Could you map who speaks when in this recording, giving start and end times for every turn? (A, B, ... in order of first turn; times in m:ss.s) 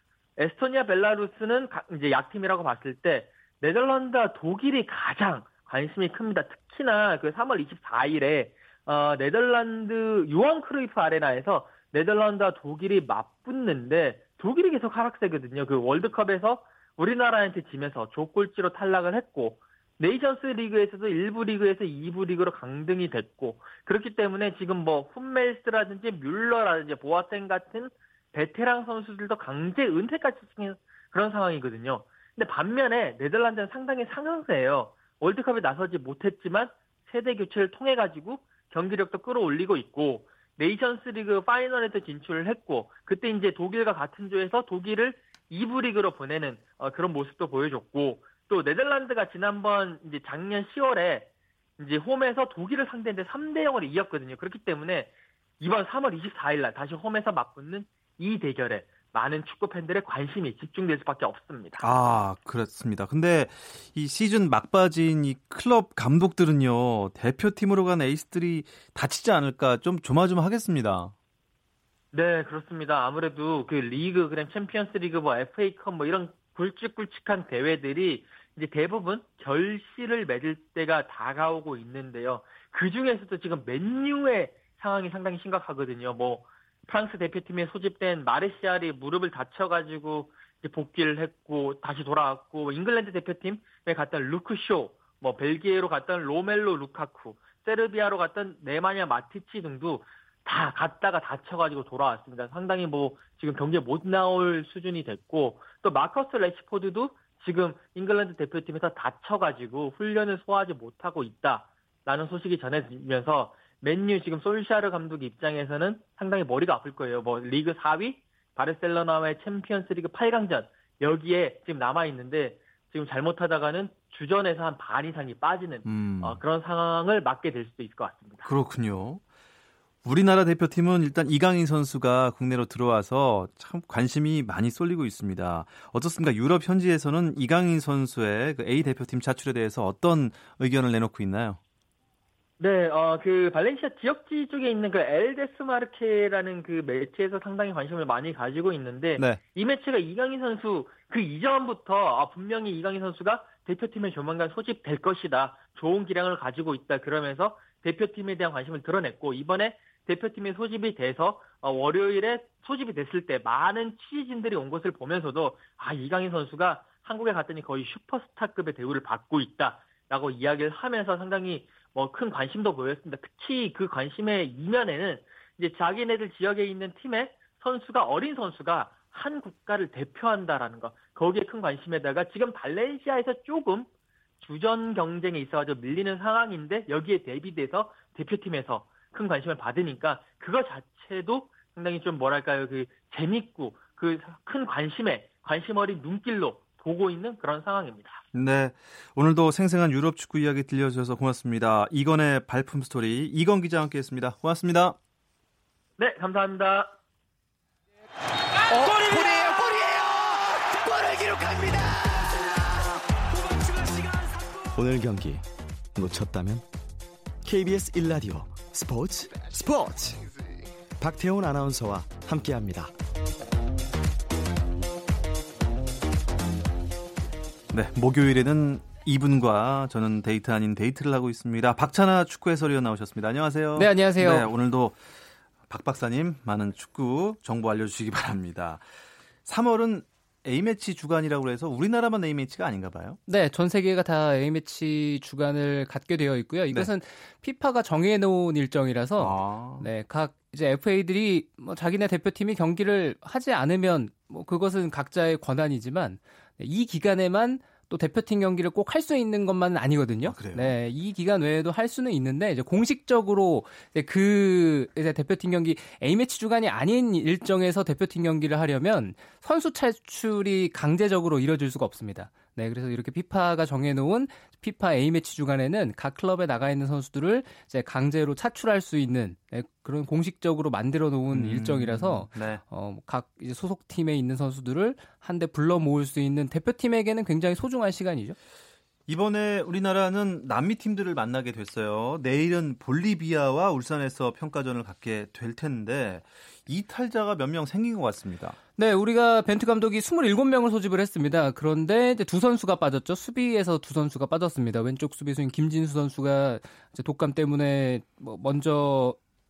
0:00.4-1:01.9 A
1:01.8-1:11.1 B
1:12.1-2:08.5 A
2:05.8-2:06.4 B
2:08.4-2:09.2 B
2:10.0-2:21.6 B
2:22.6-3:03.9 A
3:04.4-3:18.2 A
3:18.3-3:25.0 B
3:26.0-3:27.0 A
3:28.7-3:32.5 C
3:33.6-3:34.2 C
3:34.7-3:36.6 D
3:37.4-3:40.3 D
3:41.0-3:42.9 D
3:47.7-3:55.0 B
3:53.8-3:54.5 E
3:55.7-3:58.8 B
3:59.5-4:03.2 B
4:03.3-4:48.4 E
4:09.2-4:09.9 B
4:20.2-4:20.8 B
4:41.3-4:42.6 B
4:49.1-4:58.6 B
4:58.8-5:09.2 E